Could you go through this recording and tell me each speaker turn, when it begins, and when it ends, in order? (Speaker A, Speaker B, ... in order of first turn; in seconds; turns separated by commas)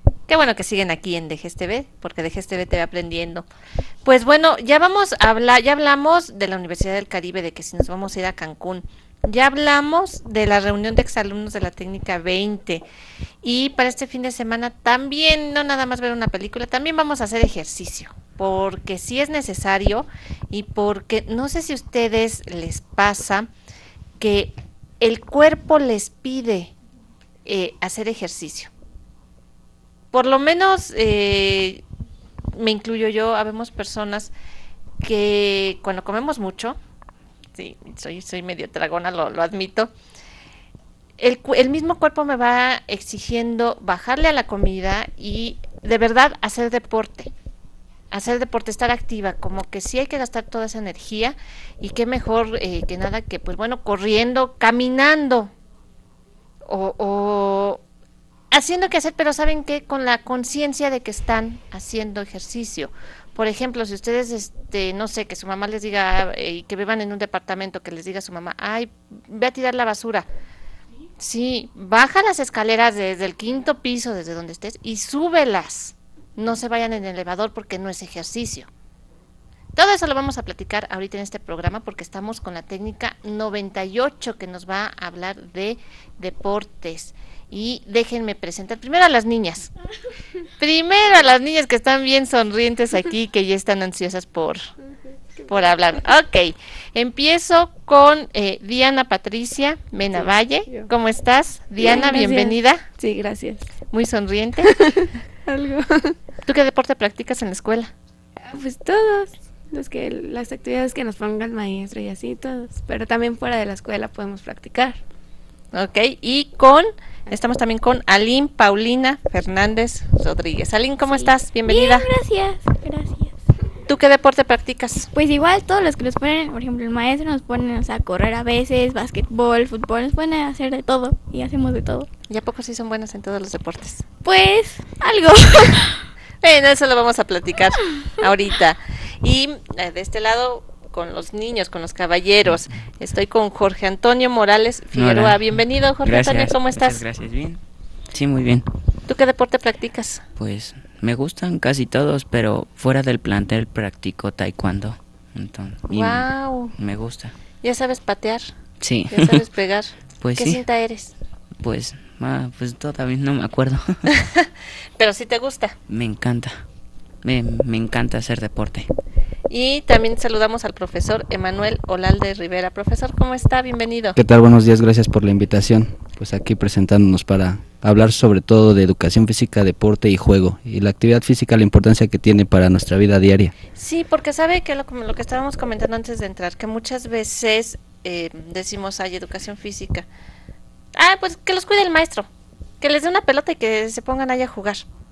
Speaker A: 0.3-3.5, Speaker A: 4.0-12.8, Speaker A: 13.4-23.5, Speaker A: 24.2-26.7, Speaker A: 27.4-28.7, Speaker A: 30.1-31.8, Speaker A: 32.5-34.3, Speaker A: 35.0-36.8, Speaker A: 37.5-39.9, Speaker A: 41.2-47.3, Speaker A: 48.1-55.5, Speaker A: 56.6-57.8, Speaker A: 58.5-70.3, Speaker A: 71.2-78.7, Speaker A: 79.8-89.7, Speaker A: 90.6-94.7, Speaker A: 95.5-102.8, Speaker B: 101.8-103.7, Speaker A: 103.9-104.7, Speaker B: 104.6-106.2, Speaker A: 106.5-107.9, Speaker B: 108.5-115.0, Speaker A: 115.7-122.1, Speaker C: 121.1-123.4, Speaker A: 123.9-125.1, Speaker C: 125.1-132.1, Speaker A: 132.3-134.0, Speaker C: 134.2-136.0, Speaker A: 136.4-147.0, Speaker D: 144.9-147.6, Speaker D: 148.1-148.7, Speaker A: 149.1-150.2, Speaker D: 150.4-157.3, Speaker A: 155.9-156.7, Speaker A: 157.6-158.5, Speaker D: 158.8-159.4, Speaker A: 159.1-161.1, Speaker D: 160.2-160.6, Speaker D: 161.6-164.1, Speaker A: 164.2-165.8, Speaker D: 165.9-166.6, Speaker D: 167.2-168.9, Speaker A: 169.5-174.2, Speaker E: 174.1-183.5, Speaker A: 183.7-190.1, Speaker A: 190.9-192.3, Speaker A: 192.8-194.8